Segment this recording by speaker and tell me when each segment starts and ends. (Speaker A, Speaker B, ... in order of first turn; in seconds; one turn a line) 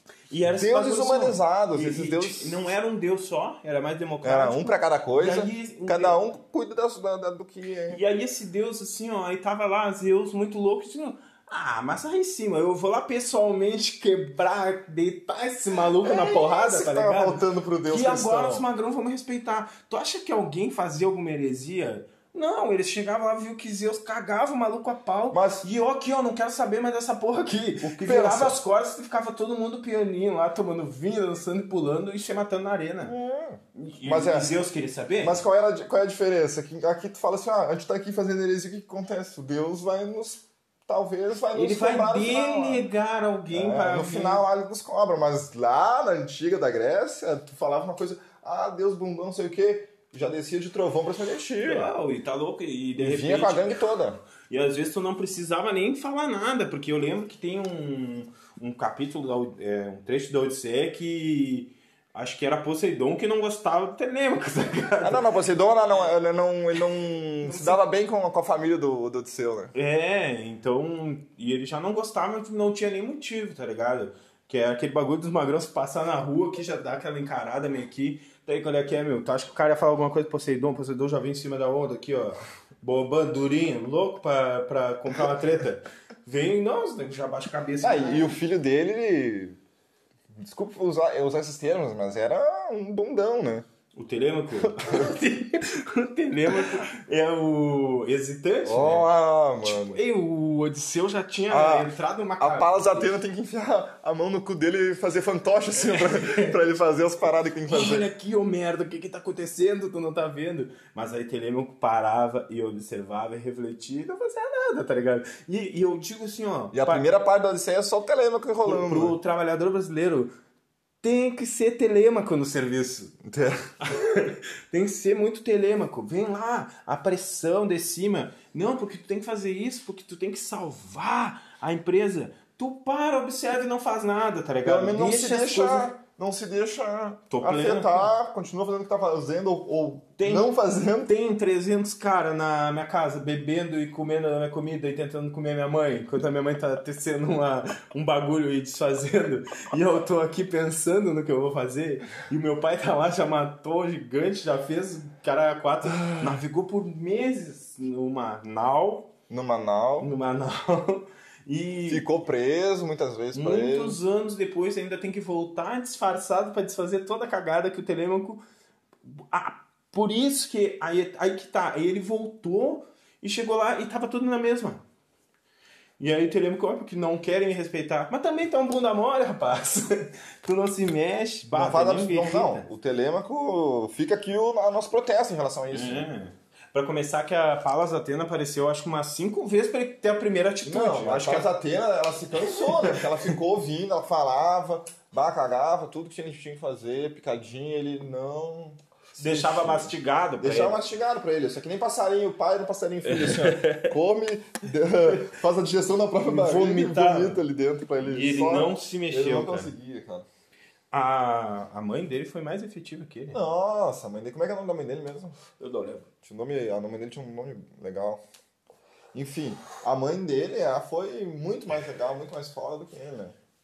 Speaker A: 0.3-6.2
Speaker B: 0.5-2.6
Speaker B: 4.2-8.0
Speaker A: 7.9-33.1
Speaker B: 16.0-18.7
Speaker B: 25.3-25.7
Speaker B: 27.8-28.6
Speaker B: 33.0-34.5
Speaker A: 33.8-35.4
Speaker B: 35.2-42.9
Speaker A: 41.5-44.4
Speaker B: 43.5-52.0
Speaker A: 51.6-53.8
Speaker B: 53.0-54.2
Speaker A: 54.5-65.3
Speaker B: 65.0-69.7
Speaker A: 65.8-66.1
Speaker A: 67.4-67.8
Speaker A: 69.7-88.3
Speaker B: 87.8-89.6
Speaker B: 90.3-93.7
Speaker A: 94.0-99.1
Speaker B: 94.6-95.1
Speaker B: 98.7-100.0
Speaker A: 99.6-103.1
Speaker B: 101.5-108.1
Speaker A: 105.9-106.6
Speaker A: 107.7-117.1
Speaker B: 116.7-119.2
Speaker A: 118.6-120.3
Speaker A: 121.0-123.2
Speaker B: 123.2-123.7
Speaker A: 123.8-135.9
Speaker B: 134.7-141.1
Speaker A: 137.3-138.1
Speaker A: 140.2-140.5
Speaker A: 141.1-159.1
Speaker B: 156.0-156.3
Speaker B: 159.3-160.1
Speaker A: 160.0-162.1
Speaker B: 161.9-164.0
Speaker A: 163.3-168.4
Speaker A: 169.0-174.8
Speaker A: 176.0-182.7
Speaker B: 181.5-186.1
Speaker A: 185.7-191.5
Speaker B: 190.7-210.3
Speaker A: 192.6-193.0
Speaker A: 199.2-200.8
Speaker A: 203.0-203.9
Speaker A: 206.2-207.4
Speaker A: 208.0-209.7
Speaker A: 210.9-213.4
Speaker B: 213.3-215.4
Speaker A: 215.6-216.1
Speaker B: 216.2-218.2
Speaker B: 219.1-223.3